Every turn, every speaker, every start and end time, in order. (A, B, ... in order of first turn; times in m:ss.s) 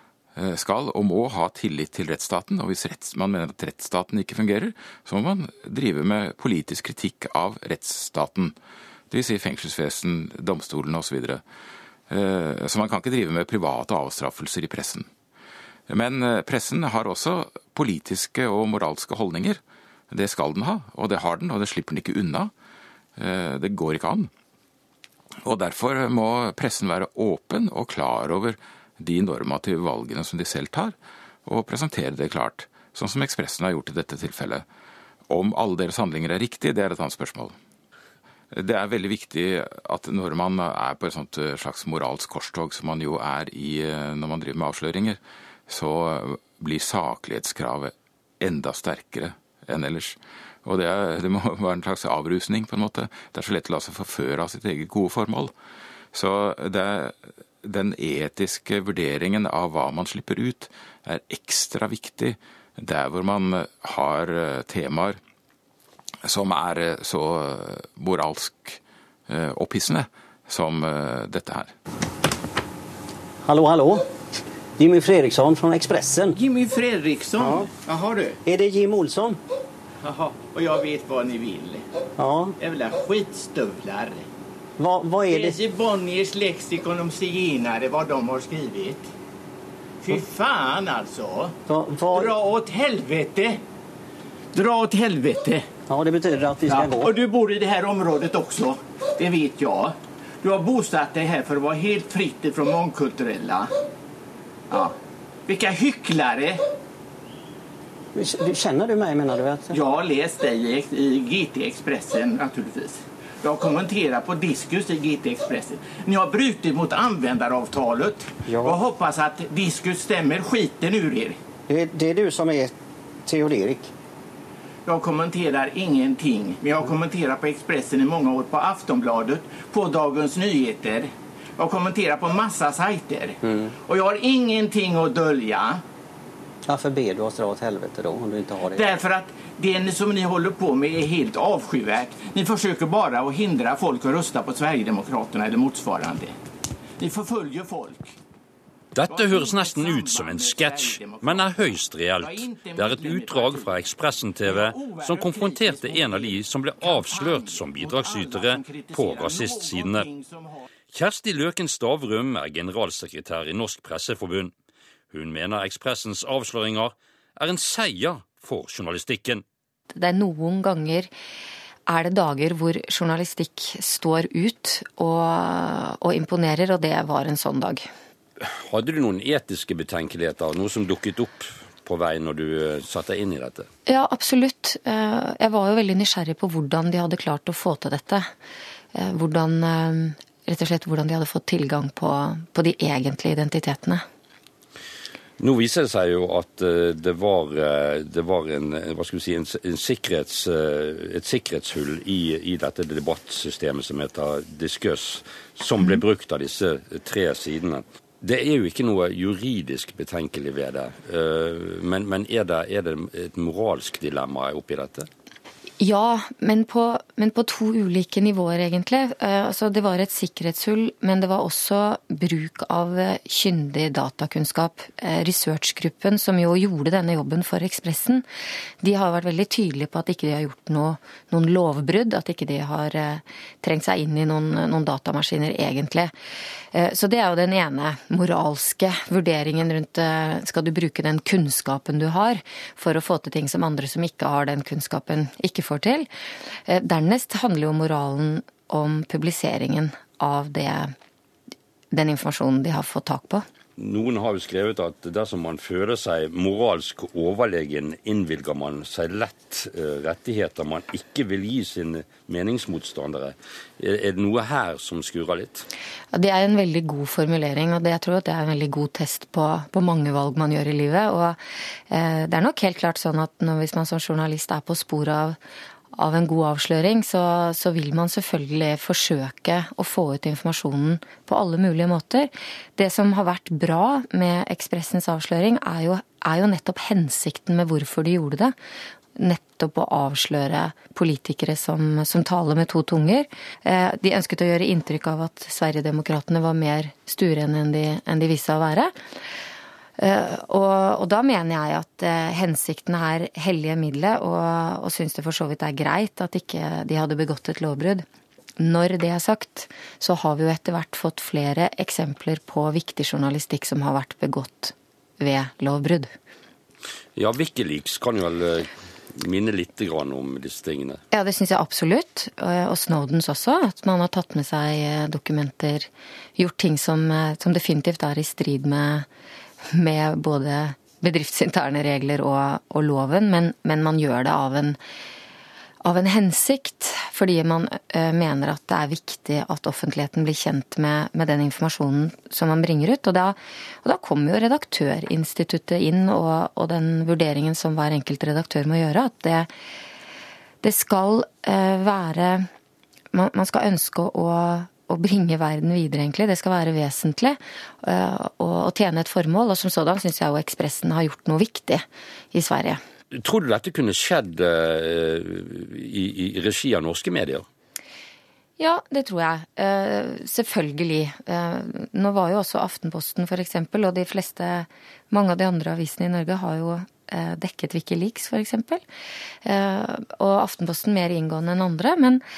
0:00.4-0:08.6 A
0:09.1-0:11.4 A
0:12.1-0:15.1 A
0:15.9-0:22.5 A
0:23.2-0:24.3 A
0:25.4-0:34.7 A
0:35.3-0:37.6 A
0:38.5-0:55.5 A
0:56.1-1:05.2 A
1:06.2-1:11.7 A
1:13.4-1:14.1 B
1:14.8-1:16.4 B
1:16.4-1:18.4 C
1:17.4-1:17.7 B
1:18.4-1:19.4 B
1:20.0-1:21.8 C
1:22.2-1:22.5 B
1:22.6-1:24.3 C
1:24.8-1:25.6 B
1:25.3-1:29.1 C
1:30.0-1:31.6 C
1:31.7-1:32.3 B
1:32.1-1:33.6 C
1:34.5-1:35.7 C
1:35.9-1:37.1 B
1:36.7-1:43.7 C
1:44.7-1:45.0 C
1:45.5-1:46.6 C
1:48.2-1:49.8 B
1:49.7-2:01.4 C
1:58.5-1:58.8 B
2:01.7-2:02.7 B
2:03.2-2:03.9 B
2:04.9-2:15.8 C
2:16.7-2:18.9 B
2:18.6-2:26.3 C
2:27.0-2:28.1 C
2:29.0-2:40.1 D
2:29.1-2:33.9 C
2:34.4-2:40.7 C
2:40.9-2:44.5 D
2:45.1-2:49.4 D
2:49.9-2:51.1 E
2:51.9-2:57.9 E
2:58.4-3:03.7 D
3:03.9-3:08.3 E
3:08.9-3:14.0 E
3:15.4-3:35.1 D
3:35.8-3:48.2 E
3:48.8-3:56.1 E
3:56.7-4:06.1 E
4:06.7-4:10.9 E
4:11.9-4:13.5 E
4:13.8-4:25.7 D
4:26.1-4:31.4 E
4:31.9-4:35.4 E
4:36.0-4:48.6 E
4:49.2-4:58.9 E
5:00.0-5:08.1 E
5:08.6-5:16.1 E
5:17.2-5:21.0 D
5:21.1-5:29.1 E
5:29.7-5:34.8 E
5:35.8-5:49.5 E
5:50.6-5:52.5 E
5:53.1-6:02.8 E
6:03.1-6:07.4 D
6:08.6-6:18.8 E
6:19.4-6:22.2 E